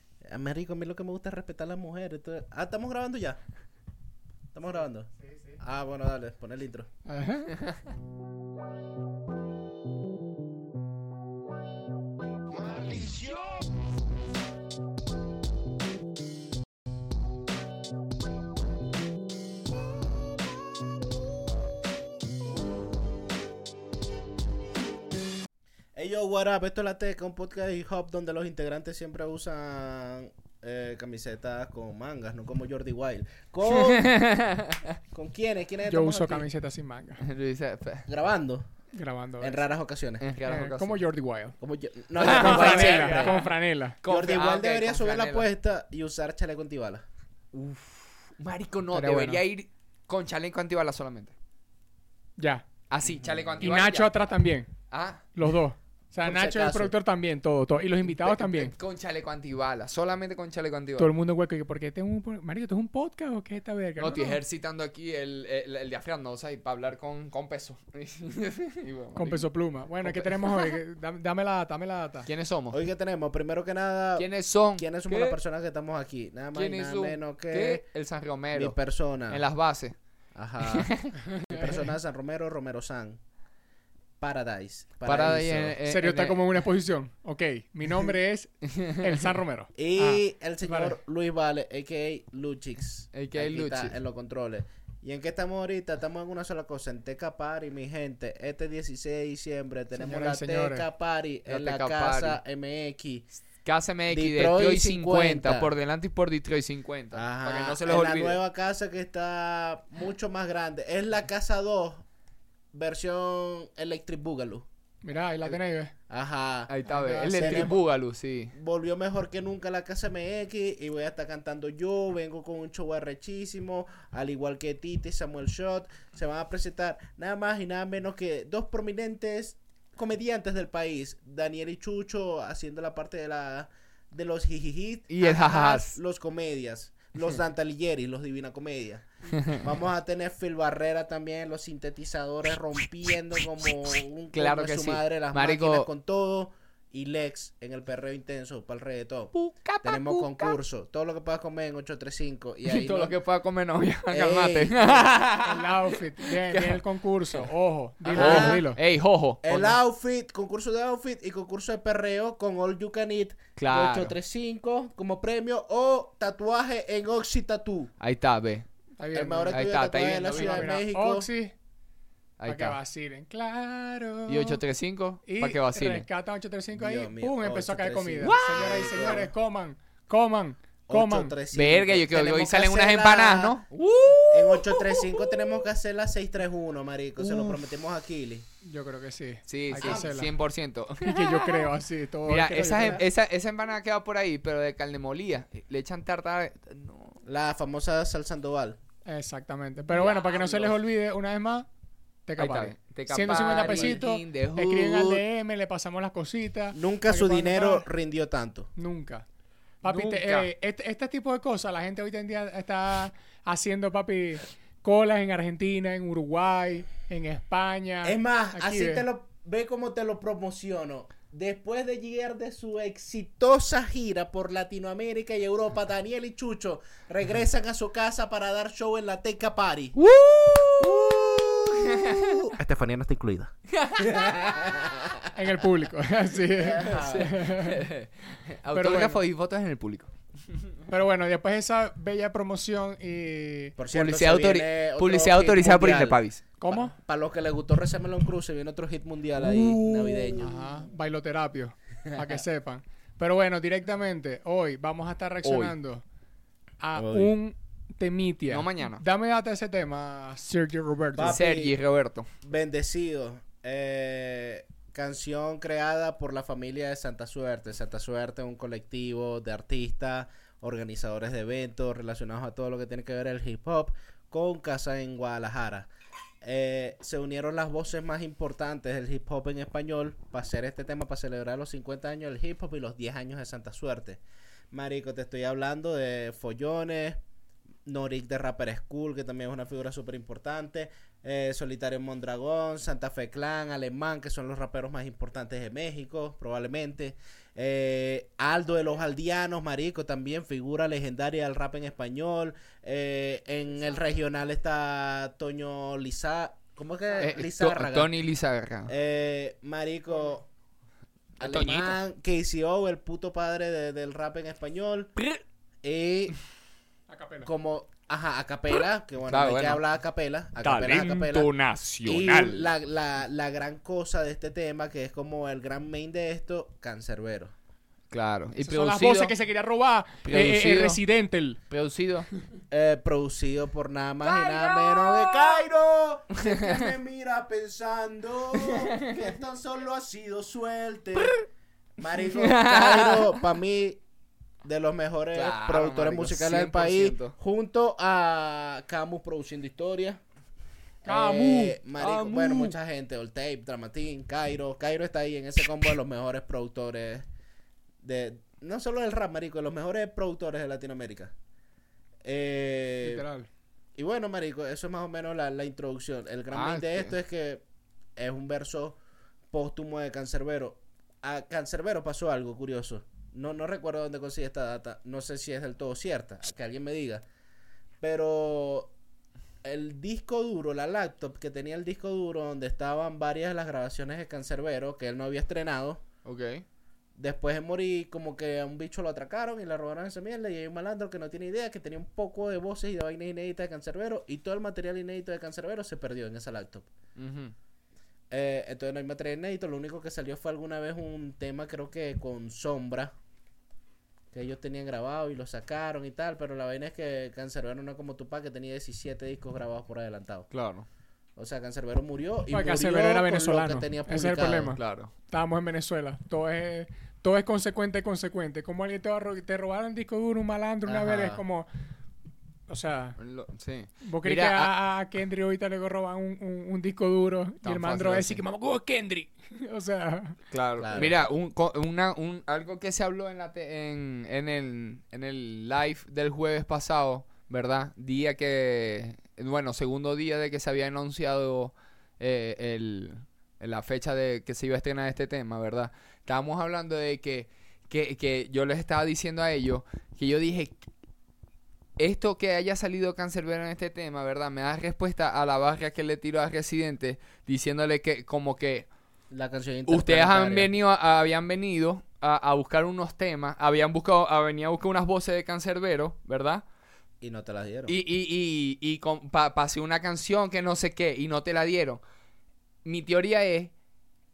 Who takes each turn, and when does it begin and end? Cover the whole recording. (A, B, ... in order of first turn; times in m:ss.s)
0:00.2-0:03.4 A
0:04.5-0:06.9 A
0:05.2-0:05.6 B
0:07.1-0:07.6 B
0:26.0-0:34.1 A
0:33.7-0:35.0 C
0:35.1-0:36.4 A
0:35.9-0:37.2 B
0:37.2-0:38.0 C
0:38.1-0:38.7 A
0:38.9-0:39.6 B
0:39.4-0:40.2 A
0:40.2-0:41.0 C
0:40.4-0:41.5 B
0:41.6-0:43.4 A
0:42.2-0:45.5 C
0:42.2-0:44.0 B
0:44.1-0:47.0 A
0:47.5-0:51.3 C
0:48.9-0:49.4 B
0:52.4-0:52.7 B
0:52.9-0:54.1 C
0:53.6-0:54.7 B
0:54.9-0:55.2 C
0:55.3-0:58.7 B
0:56.2-0:56.9 A
0:58.2-1:01.1 C
1:01.0-1:04.4 B
1:04.0-1:09.4 C
1:09.1-1:12.3 B
1:10.0-1:10.8 C
1:12.2-1:12.8 C
1:12.7-1:17.8 A
1:14.2-1:15.4 C
1:16.5-1:18.8 C
1:18.5-1:19.4 A
1:19.3-1:20.0 C
1:20.3-1:23.2 A
1:20.6-1:21.2 C
1:21.3-1:21.7 B
1:24.2-1:25.8 A
1:25.0-1:26.6 C
1:25.9-1:31.0 B
1:28.7-1:29.3 C
1:29.8-1:43.3 A
1:33.1-1:34.0 C
1:39.9-1:40.9 B
1:41.5-1:42.4 C
1:43.6-1:48.4 C
1:44.1-1:45.7 A
1:47.1-1:52.0 A
1:52.7-1:54.7 A
1:55.0-1:55.9 B
1:56.1-1:56.7 A
1:56.7-1:58.5 C
1:56.9-1:57.8 B
1:57.3-1:57.7 A
1:58.5-2:33.2 A
2:15.1-2:16.0 C
2:24.3-2:25.9 C
2:29.3-2:30.6 C
2:32.6-2:37.5 C
2:34.1-2:35.1 A
2:35.4-2:38.8 B
2:38.1-2:38.6 A
2:38.1-2:39.8 C
2:39.4-2:47.9 A
2:43.6-2:44.2 C
2:48.0-2:48.7 C
2:49.0-2:49.6 B
2:49.1-2:51.3 A
2:49.5-2:50.8 C
2:50.2-2:51.5 B
2:52.4-2:52.8 C
2:52.5-2:54.6 B
2:54.3-2:56.1 C
2:55.2-3:01.3 B
2:56.8-2:59.3 A
2:58.2-2:59.2 C
3:00.9-3:03.6 A
3:01.5-3:05.6 C
3:04.3-3:08.5 A
3:07.2-3:07.6 C
3:08.6-3:10.3 B
3:09.5-3:11.7 C
3:09.8-3:10.1 A
3:11.0-3:13.0 B
3:12.2-3:17.2 C
3:12.6-3:13.0 A
3:17.2-3:18.8 A
3:19.0-3:21.7 B
3:20.0-3:20.7 A
3:22.3-3:27.9 B
3:22.4-3:25.2 C
3:23.2-3:24.0 A
3:26.7-3:28.7 A
3:28.8-3:29.2 B
3:29.8-3:39.0 B
3:29.8-3:30.5 C
3:38.0-3:50.0 A
3:50.1-3:52.5 C
3:50.6-3:51.5 A
3:52.5-3:55.2 A
3:53.7-3:54.3 C
3:55.3-3:57.8 B
3:56.6-3:57.3 A
3:56.8-4:00.1 C
3:58.7-3:59.2 B
4:00.9-4:03.8 B
4:03.8-4:10.7 A
4:03.9-4:06.5 C
4:06.6-4:07.0 B
4:09.5-4:16.0 B
4:15.4-4:15.8 C
4:16.8-4:21.4 B
4:17.0-4:17.3 A
4:18.5-4:19.0 C
4:21.2-4:21.7 A
4:21.2-4:22.3 C
4:22.4-4:35.9 A
4:36.4-4:44.2 A
4:44.7-4:47.2 A
4:47.9-5:08.1 A
5:07.2-5:08.9 C
5:08.9-5:10.4 A
5:11.4-5:12.0 C
5:11.4-5:15.1 A
5:15.8-5:16.4 A
5:17.1-5:17.5 B
5:17.4-5:21.5 A
5:19.3-5:19.8 C
5:20.6-5:22.7 C
5:22.0-5:27.5 A
5:28.1-5:29.3 C
5:28.6-5:31.6 B
5:30.2-5:31.0 C
5:31.7-5:32.3 C
5:32.7-5:41.4 A
5:34.2-5:35.6 C
5:36.5-5:36.8 C
5:38.6-5:39.3 C
5:42.0-5:44.0 A
5:42.2-5:43.4 C
5:44.6-5:50.2 A
5:45.3-5:47.4 C
5:51.0-5:51.8 B
5:51.0-5:57.2 A
5:52.0-5:52.8 C
5:58.0-6:01.3 A
6:02.2-6:03.2 A
6:03.0-6:03.4 B
6:04.0-6:07.6 A
6:06.5-6:07.2 C
6:08.2-6:09.0 A
6:09.5-6:17.2 A
6:18.0-6:18.9 A
6:19.6-6:26.0 A
6:26.2-6:26.6 C
6:27.2-6:36.9 A
6:37.2-6:37.6 C
6:38.3-6:43.1 A
6:44.3-6:50.5 A
6:50.5-6:50.9 C
6:51.4-6:54.7 A
6:52.5-7:01.7 B
6:54.7-6:55.1 C
7:00.9-7:01.4 A
7:02.7-7:03.2 B
7:03.2-7:04.7 C
7:04.0-7:10.4 B
7:07.6-7:08.4 C
7:10.5-7:30.8 C
7:10.8-7:11.2 A
7:32.0-7:38.9 C
7:39.3-7:40.7 A
7:39.9-7:46.6 C
7:47.2-7:48.0 A
7:47.9-7:52.0 C
7:52.8-7:53.7 C